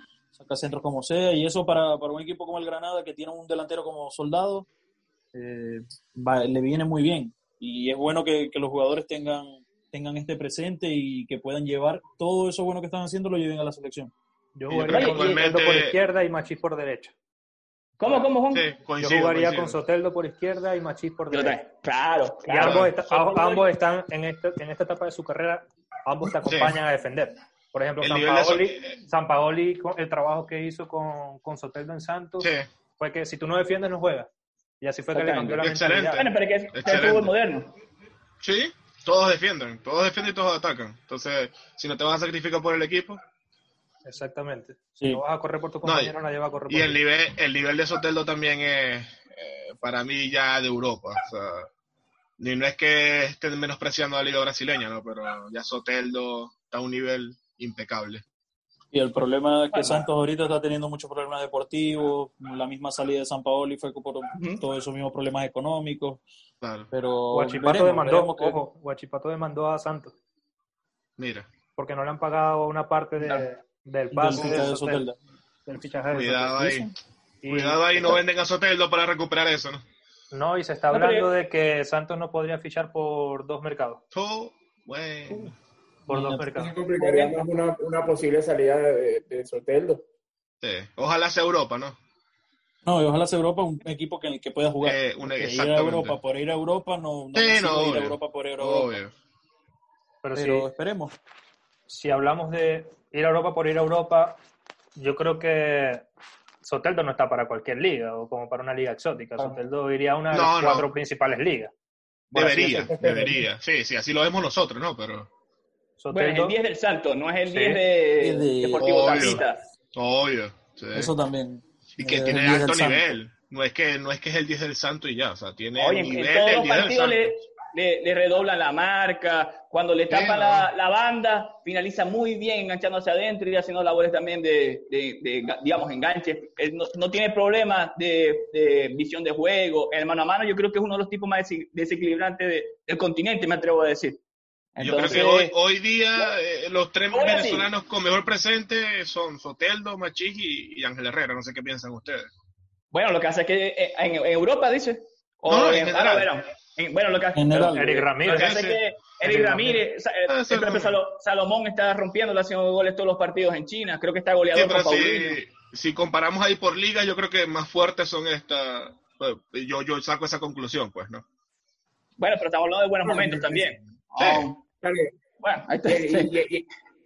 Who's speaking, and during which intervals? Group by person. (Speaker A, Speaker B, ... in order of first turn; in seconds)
Speaker A: 0.3-4.7, 5.3-14.1, 58.9-66.2, 66.9-68.6, 74.1-75.2, 86.1-86.5, 92.8-98.9, 100.3-101.1, 118.2-119.4, 120.9-123.2, 157.3-158.1
Speaker B: 14.5-17.1, 19.0-21.6, 22.5-34.3, 34.8-36.3, 44.0-47.0, 67.3-70.1, 71.8-75.1, 75.7-76.8, 77.4-78.2, 80.3-84.0, 86.1-86.7, 100.2-100.7, 101.9-104.4, 105.0-106.0, 106.6-111.7, 116.0-116.5, 117.5-117.8, 157.7-158.6, 159.2-159.8
Speaker C: 14.7-16.0, 18.1-19.8, 22.6-22.9, 26.4-26.8, 28.0-29.0, 32.4-32.7, 35.6-37.3, 38.4-43.2, 45.8-46.1, 46.7-51.7, 52.4-58.2, 66.6-66.9, 71.2-71.5, 74.3-74.7, 76.1-76.9, 77.5-79.8, 84.1-85.5, 90.6-92.0, 94.8-96.2, 97.3-99.1, 110.3-110.9, 112.3-115.3, 118.8-119.4, 119.9-121.1, 121.9-127.3, 130.1-130.7, 144.8-152.3, 155.5-156.3, 158.2-158.8, 160.3-161.0, 164.5-171.2, 174.2-174.5
Speaker D: 14.9-15.3, 18.0-18.7, 21.3-23.7, 35.1-35.6, 36.1-37.7, 59.7-60.0, 64.3-64.6, 73.2-73.5, 80.9-81.3, 87.0-87.4, 116.1-119.6, 125.8-144.2, 144.8-145.6, 147.1-147.7, 152.9-165.4, 172.2-174.6, 175.4-176.3
Speaker E: 86.5-90.0, 112.3-113.5, 173.0-173.7, 174.2-175.1, 175.8-176.7